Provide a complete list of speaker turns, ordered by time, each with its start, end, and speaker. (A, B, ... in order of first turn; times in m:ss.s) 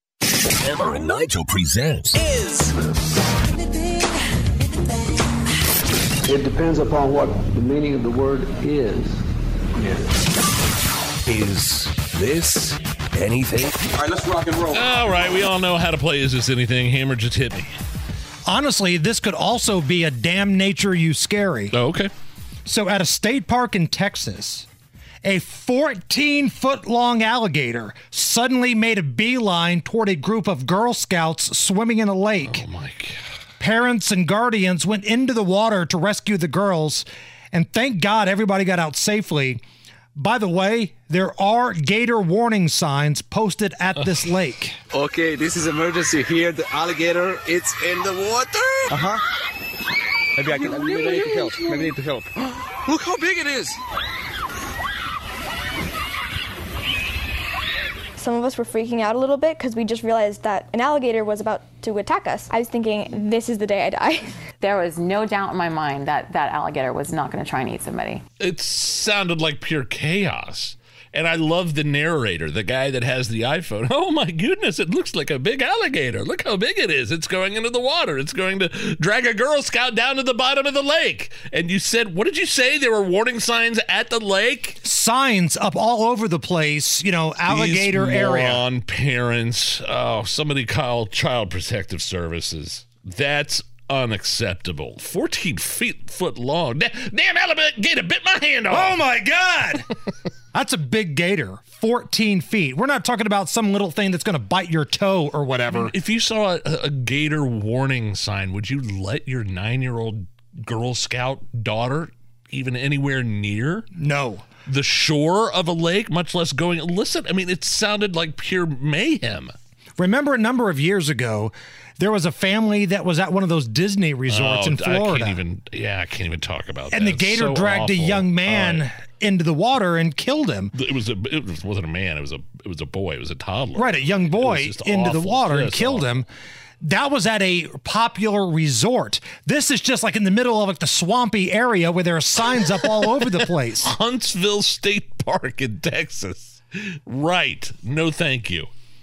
0:00.7-0:02.2 A
0:06.3-0:09.2 B
0:11.3-0:13.7 A
0:14.0-0:14.8 C
0:14.7-0:17.7 D
0:18.5-0:21.8 E
0:21.7-0:22.1 D
0:22.6-0:24.6 E
0:25.2-0:32.6 E
0:32.4-0:33.2 D
0:33.6-0:39.6 E
0:40.2-0:44.8 E
0:44.9-0:49.2 C
0:50.4-0:52.2 C
0:52.9-0:53.7 C
0:58.2-1:04.3 F
1:04.6-1:08.2 G
1:08.4-1:24.8 D
1:24.8-1:28.6 E
1:27.5-1:39.0 D
1:38.7-1:39.9 E
1:40.5-1:45.9 E
1:45.7-1:53.9 D
1:54.0-1:54.4 E
1:54.6-1:59.5 D
2:00.0-2:05.4 E
2:04.3-2:08.8 D
2:06.9-2:10.7 E
2:10.7-2:16.1 D
2:13.7-2:16.3 E
2:16.8-2:23.9 E
2:22.6-2:28.7 D